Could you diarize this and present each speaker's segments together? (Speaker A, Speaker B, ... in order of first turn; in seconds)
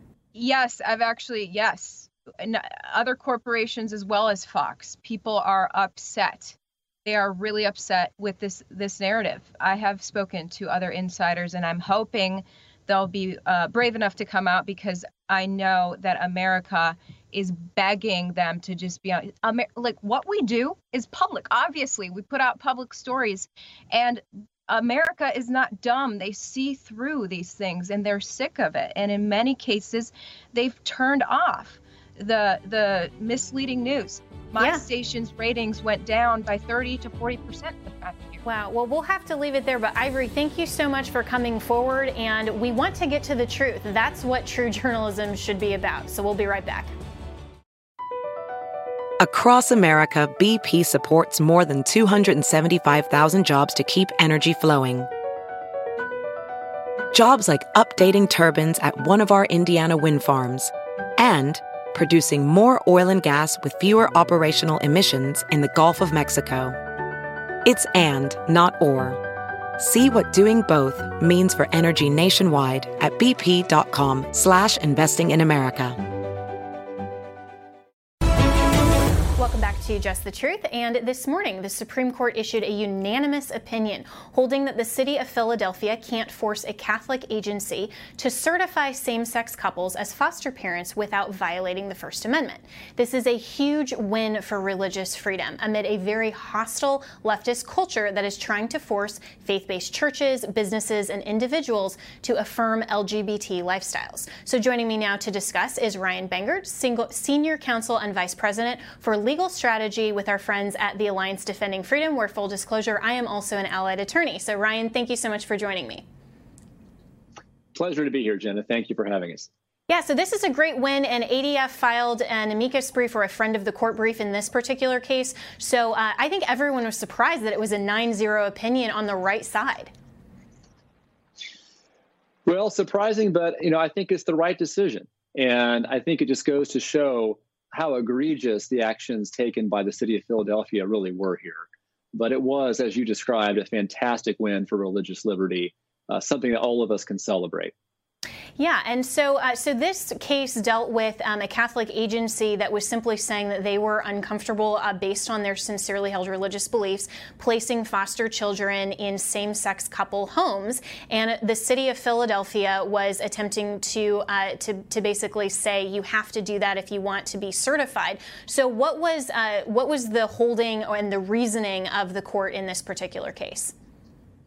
Speaker A: 0.3-38.4
Speaker B: 38.4-46.9, 79.4-116.0, 119.9-129.9, 148.6-173.7
Speaker C: 49.2-55.1, 57.1-66.8, 67.6-69.2, 69.8-76.0
Speaker D: 117.7-119.5, 132.4-147.7